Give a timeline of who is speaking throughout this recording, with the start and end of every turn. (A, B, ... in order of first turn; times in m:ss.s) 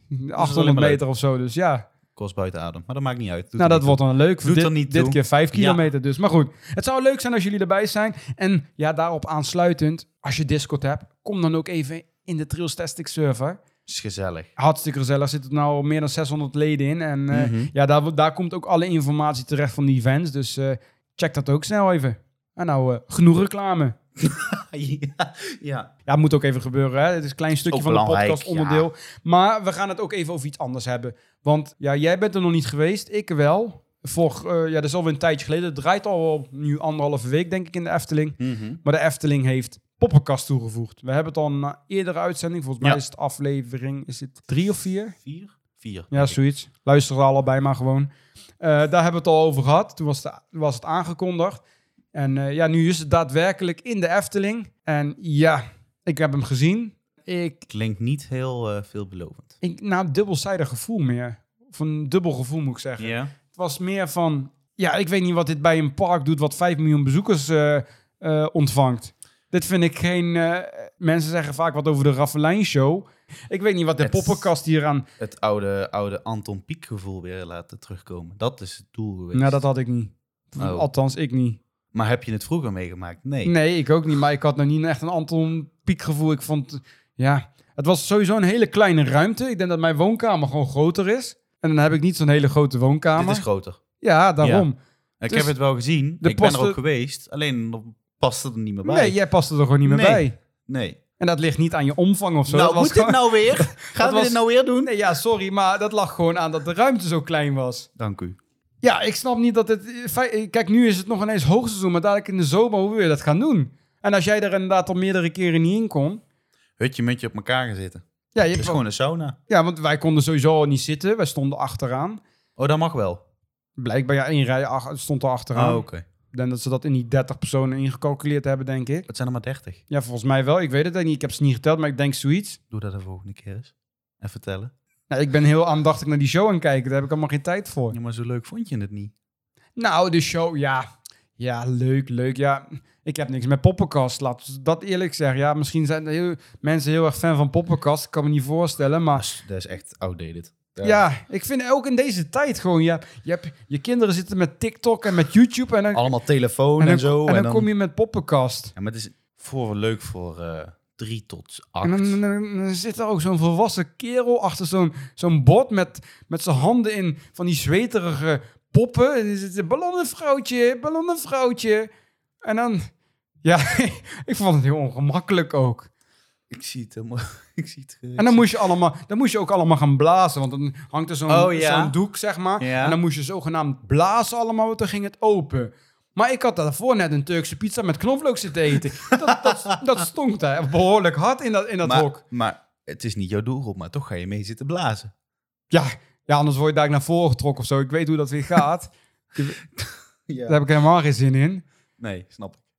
0:00.1-0:01.8 A
0:00.4-0:01.0 B
0:02.2-0:05.8 B
0:03.6-0:13.6 A
0:13.9-0:14.5 B
0:14.6-0:24.0 A
0:17.3-0:17.7 B
0:24.2-0:25.9 B
0:26.1-0:45.2 A
0:27.7-0:28.9 B
0:38.4-0:38.8 B
0:45.2-0:46.4 B
0:46.1-0:48.1 A
0:48.6-0:51.6 A
0:52.1-0:57.6 A
0:57.7-0:59.5 B
0:59.6-1:15.1 A
1:03.0-1:03.3 B
1:14.0-1:14.5 B
1:15.2-1:19.6 B
1:19.3-1:21.6 A
1:20.6-1:20.9 B
1:21.9-1:23.5 B
1:23.4-1:33.4 A
1:33.2-1:33.8 B
1:34.0-1:34.8 A
1:35.2-1:39.2 B
1:36.2-1:36.8 A
1:38.8-1:40.4 A
1:39.8-1:41.0 B
1:41.2-1:47.9 A
1:42.5-1:44.9 B
1:48.0-1:48.4 B
1:48.8-1:56.2 A
1:56.8-1:59.4 B
1:58.4-1:58.8 A
1:59.5-2:02.2 A
2:02.6-2:03.2 B
2:03.8-2:09.1 A
2:05.5-2:06.0 B
2:09.1-2:09.8 B
2:09.9-2:12.6 A
2:12.7-2:14.7 B
2:15.1-2:18.0 A
2:17.9-2:19.1 B
2:19.8-2:20.9 A
2:21.4-2:29.2 A
2:29.2-2:31.0 B
2:30.8-2:36.1 A
2:35.9-2:37.7 B
2:36.8-2:38.7 A
2:38.8-2:42.2 B
2:41.8-2:51.9 A
2:52.4-2:52.9 A
2:53.4-2:55.9 A
2:56.5-2:58.5 B
2:58.2-3:12.2 A
3:01.3-3:01.9 B
3:02.6-3:03.0 B
3:09.3-3:09.7 B
3:11.8-3:15.1 B
3:15.7-3:19.6 A
3:19.8-3:20.6 B
3:20.5-3:21.6 A
3:22.0-3:22.6 B